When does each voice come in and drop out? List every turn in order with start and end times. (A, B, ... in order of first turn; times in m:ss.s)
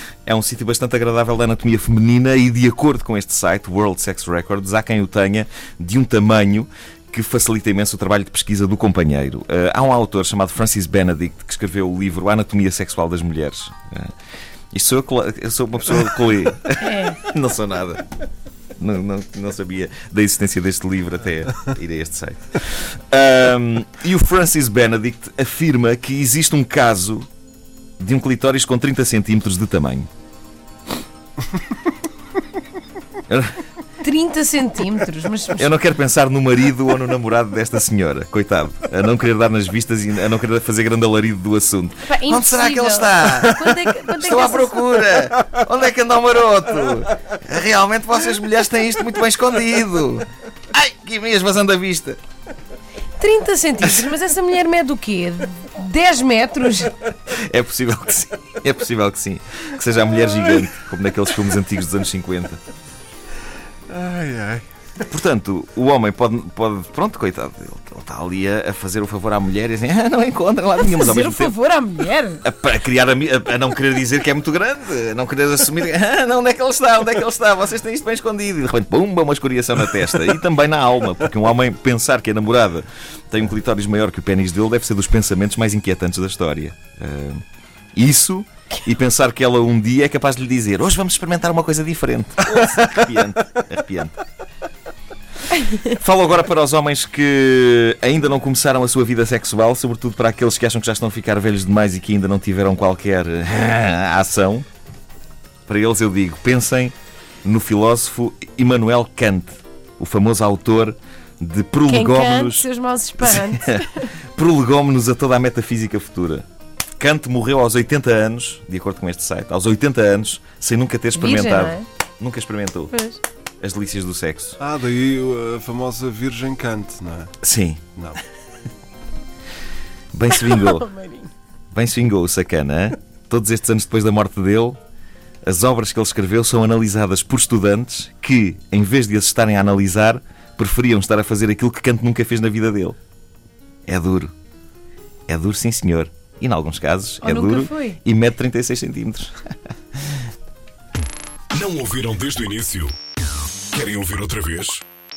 0:00.2-0:14.2 A
0:14.7-0:18.0 A
0:16.8-0:17.2 B
0:18.8-0:27.3 A
0:28.0-0:30.1 A
0:33.3-0:33.6 A
0:34.0-0:35.7 B
0:35.6-0:52.2 A
0:42.0-0:44.8 B
0:53.2-0:57.0 B
0:57.2-1:02.6 A
1:03.9-1:04.7 C
1:05.0-1:11.6 A
1:10.8-1:12.4 B
1:12.4-1:27.4 A
1:28.0-1:34.2 A
1:35.8-1:44.6 A
1:45.7-1:52.7 A
1:51.9-1:54.1 B
1:53.2-1:56.4 A
1:57.0-2:02.9 A
2:01.2-2:01.9 B
2:02.9-2:03.2 B
2:03.6-2:04.6 A
2:04.6-2:07.3 C
2:07.4-2:07.8 A
2:10.1-2:10.9 A
2:10.4-2:11.3 B
2:11.7-2:14.8 A
2:15.4-2:23.0 A
2:23.9-2:24.3 A
2:25.3-2:30.2 A
2:27.2-2:28.0 B
2:31.5-2:33.0 D
2:33.7-2:34.8 D